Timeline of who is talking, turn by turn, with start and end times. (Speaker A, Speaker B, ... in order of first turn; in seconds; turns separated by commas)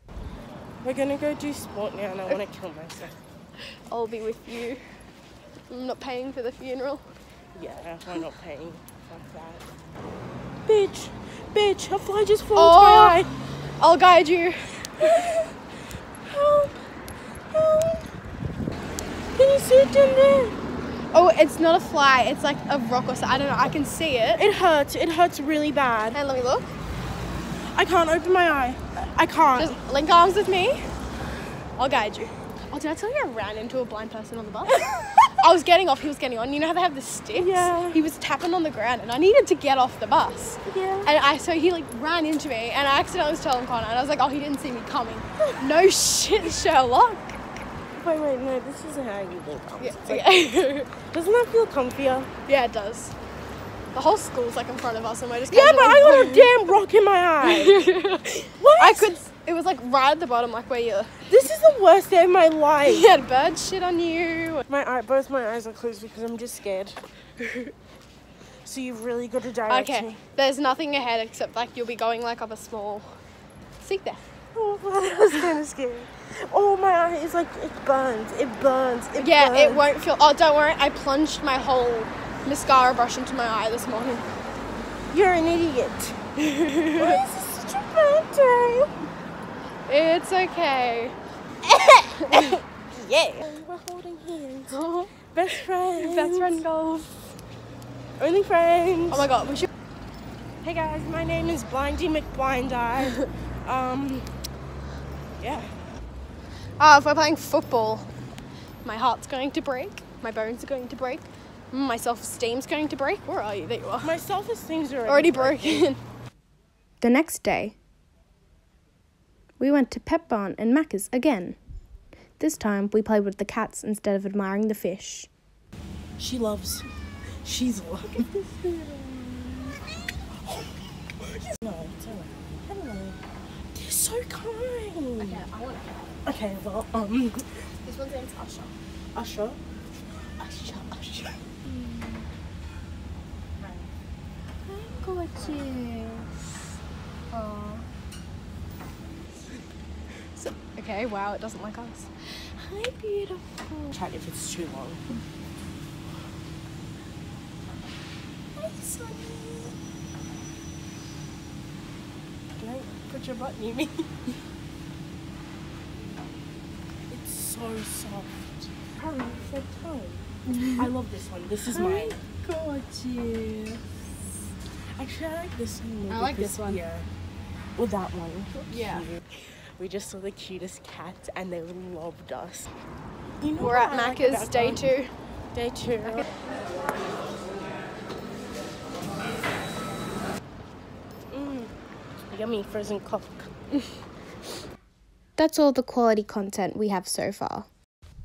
Speaker A: 0.8-3.2, Speaker B: 3.9-4.8, Speaker B: 5.7-7.0, Speaker A: 7.5-9.6, Speaker A: 10.7-13.3, Speaker B: 12.6-15.2, Speaker A: 15.0-15.5, Speaker A: 16.3-16.7, Speaker A: 17.5-18.1, Speaker A: 19.3-20.6, Speaker B: 21.1-24.4, Speaker A: 24.4-26.2, Speaker B: 26.1-26.7, Speaker A: 27.7-29.8, Speaker B: 29.6-30.8, Speaker B: 31.8-34.9, Speaker B: 35.4-47.4, Speaker A: 37.3-38.0, Speaker A: 40.7-41.1, Speaker A: 48.0-52.3, Speaker B: 49.8-50.9, Speaker B: 52.5-53.1, Speaker B: 53.9-56.5, Speaker A: 55.5-57.9, Speaker B: 57.4-61.2, Speaker A: 58.5-59.2, Speaker A: 61.3-63.1, Speaker B: 62.8-64.6, Speaker A: 64.7-67.0, Speaker A: 68.6-70.2, Speaker B: 69.7-73.1, Speaker B: 73.8-74.2, Speaker A: 74.5-79.8, Speaker B: 79.2-84.2, Speaker A: 85.1-88.9, Speaker B: 86.6-87.2, Speaker B: 89.9-91.1, Speaker A: 91.7-96.6, Speaker B: 94.7-95.1, Speaker B: 96.0-97.1, Speaker A: 98.2-99.3, Speaker B: 99.1-99.7, Speaker A: 100.6-104.3, Speaker A: 105.4-105.7, Speaker B: 106.8-108.1, Speaker B: 108.8-114.1, Speaker A: 114.0-115.9, Speaker B: 115.1-116.0, Speaker C: 117.0-117.7, Speaker C: 119.6-121.6, Speaker C: 122.4-125.3, Speaker A: 126.2-126.9, Speaker A: 127.4-129.8, Speaker A: 130.4-133.2, Speaker A: 133.7-135.4, Speaker B: 135.2-136.1, Speaker A: 136.2-137.7, Speaker B: 137.8-138.7, Speaker A: 139.1-139.6, Speaker A: 140.4-141.4, Speaker B: 144.8-145.6, Speaker C: 144.9-146.3, Speaker B: 147.3-147.8, Speaker B: 150.3-153.9, Speaker A: 153.9-155.0, Speaker A: 162.6-164.1, Speaker A: 167.1-170.2, Speaker A: 170.8-172.2, Speaker B: 171.8-172.8, Speaker C: 172.6-173.8, Speaker A: 174.9-177.1, Speaker B: 176.1-176.7, Speaker A: 177.8-182.7, Speaker B: 178.7-179.0, Speaker A: 183.4-184.9, Speaker B: 183.6-185.1, Speaker A: 185.5-186.3, Speaker A: 191.3-191.7, Speaker A: 192.3-193.5, Speaker C: 195.4-197.7